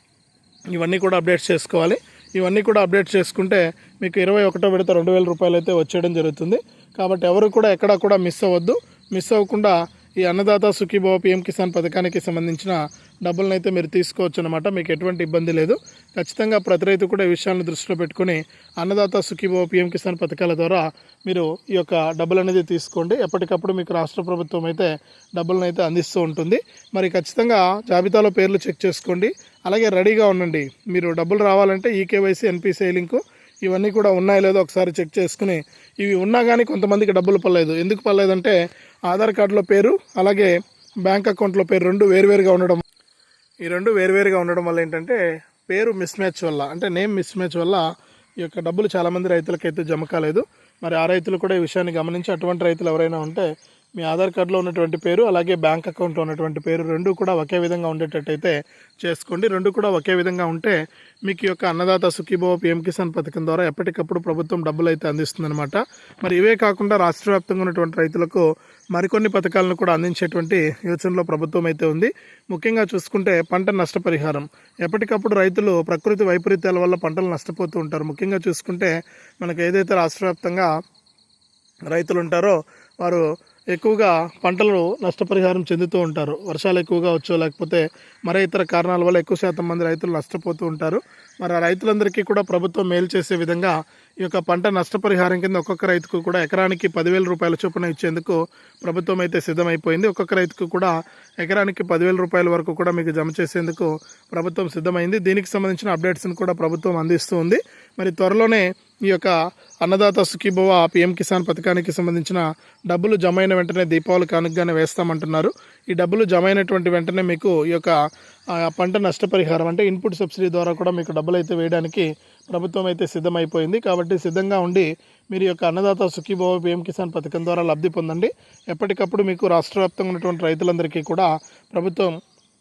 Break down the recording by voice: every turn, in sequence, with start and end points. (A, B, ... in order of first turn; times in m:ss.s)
0:00.7-0:38.5 A
0:39.1-0:42.8 A
0:43.6-0:47.8 A
0:48.4-0:53.4 A
0:54.0-1:20.7 A
1:21.9-1:57.9 A
1:58.6-2:12.1 A